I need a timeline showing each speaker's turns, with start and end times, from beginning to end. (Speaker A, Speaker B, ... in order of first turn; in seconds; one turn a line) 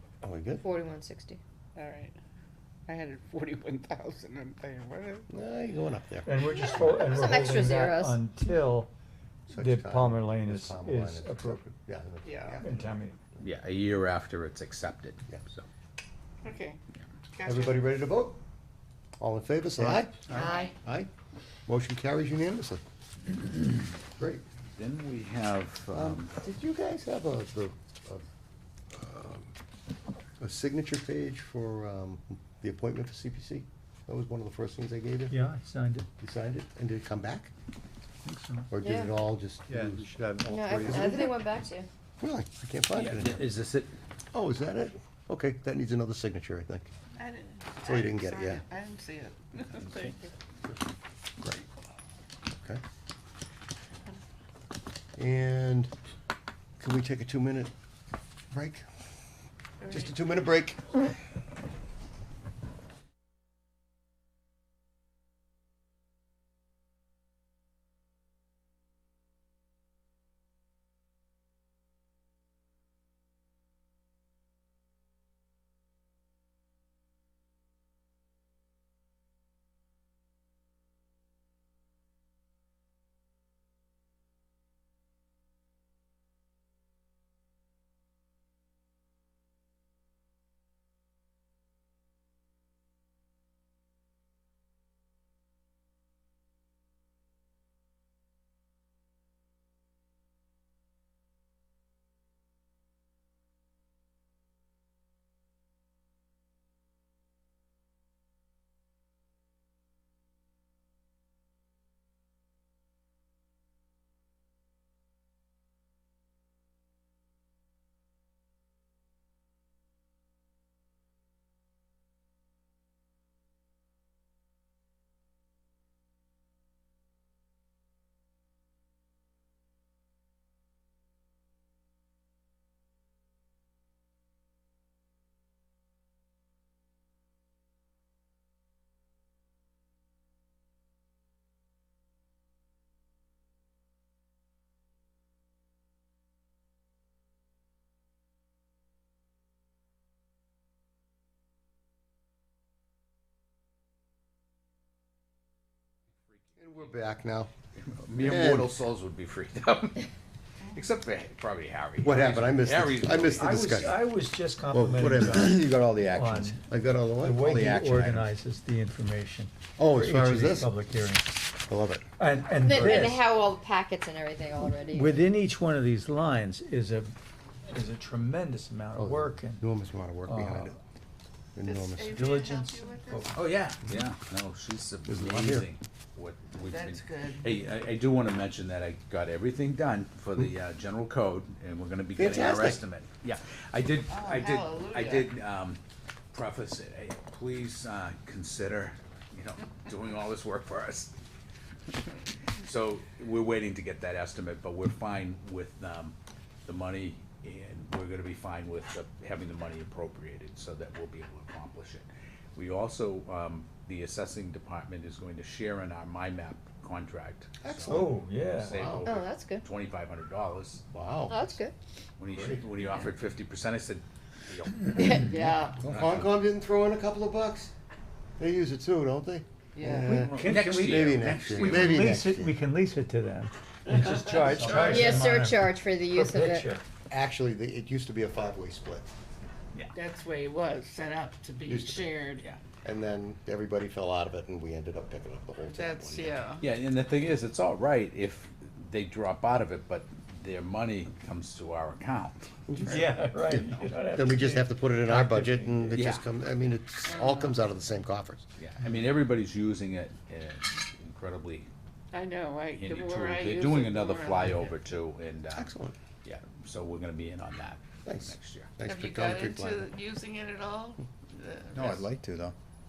Speaker A: 0.2-0.7
Speaker B: 0.6-1.4
Speaker C: 1.7-2.1
Speaker C: 2.9-5.3
Speaker A: 5.3-7.2
Speaker D: 6.2-8.9
Speaker C: 6.5-7.3
Speaker B: 7.0-8.2
Speaker D: 9.5-11.6
Speaker A: 9.5-12.8
Speaker C: 12.2-12.6
Speaker D: 12.6-13.2
Speaker E: 13.4-15.7
Speaker C: 16.4-16.8
Speaker C: 17.3-17.9
Speaker A: 17.4-18.4
Speaker A: 19.2-21.1
Speaker F: 19.8-20.5
Speaker C: 20.3-20.7
Speaker A: 21.7-22.8
Speaker A: 24.2-24.4
Speaker E: 24.8-26.3
Speaker A: 25.9-28.2
Speaker A: 28.9-29.5
Speaker A: 30.4-35.4
Speaker D: 35.3-36.1
Speaker A: 36.2-37.5
Speaker D: 38.2-38.7
Speaker A: 38.7-41.3
Speaker B: 38.8-39.1
Speaker D: 39.7-41.1
Speaker B: 40.4-41.9
Speaker A: 42.2-43.5
Speaker E: 42.9-43.9
Speaker A: 44.3-46.9
Speaker C: 47.1-50.3
Speaker A: 47.8-48.6
Speaker E: 49.7-50.1
Speaker A: 51.4-51.7
Speaker A: 55.1-55.9
Speaker A: 56.8-57.7
Speaker A: 58.5-58.9
Speaker C: 59.8-60.1
Speaker A: 59.9-60.8
Speaker E: 156.6-156.9
Speaker A: 156.6-157.5
Speaker E: 157.7-160.1
Speaker A: 158.2-158.8
Speaker E: 160.7-163.8
Speaker A: 162.0-164.1
Speaker D: 163.3-166.6
Speaker A: 164.7-165.7
Speaker F: 165.4-166.5
Speaker A: 166.4-168.0
Speaker D: 167.2-171.4
Speaker E: 167.5-168.0
Speaker A: 169.8-170.7
Speaker A: 171.6-172.1
Speaker D: 172.2-173.3
Speaker B: 172.6-175.2
Speaker A: 172.8-173.1
Speaker D: 174.9-177.1
Speaker D: 177.7-179.6
Speaker A: 178.9-180.8
Speaker D: 180.3-180.7
Speaker A: 181.5-182.3
Speaker C: 181.6-183.3
Speaker D: 182.2-183.4
Speaker E: 183.3-195.8
Speaker A: 185.1-185.7
Speaker C: 186.6-187.6
Speaker A: 192.2-192.8
Speaker C: 194.1-195.3
Speaker E: 196.3-201.2
Speaker E: 202.6-220.8
Speaker A: 217.6-219.1
Speaker D: 217.9-218.8
Speaker B: 219.0-219.7
Speaker A: 220.9-221.4
Speaker B: 221.3-221.7
Speaker E: 222.2-226.2
Speaker A: 222.3-222.6
Speaker C: 225.0-225.8
Speaker F: 225.8-226.1
Speaker A: 225.9-227.7
Speaker A: 228.4-232.5
Speaker C: 229.7-230.2
Speaker D: 230.0-236.8
Speaker E: 230.1-232.2
Speaker C: 233.9-235.1
Speaker F: 234.6-235.0
Speaker E: 234.6-234.9
Speaker B: 234.7-236.7
Speaker A: 237.1-239.1
Speaker C: 239.9-242.4
Speaker A: 241.7-242.1
Speaker A: 242.8-246.5
Speaker C: 245.7-246.6
Speaker E: 246.6-254.1
Speaker A: 252.7-258.4
Speaker D: 252.9-256.1
Speaker E: 255.9-256.2
Speaker C: 257.1-257.6
Speaker E: 258.6-261.7
Speaker C: 262.1-264.8
Speaker E: 262.7-265.7
Speaker A: 265.5-265.9
Speaker E: 266.2-268.7
Speaker A: 268.0-269.9
Speaker C: 268.8-272.0
Speaker F: 271.7-272.5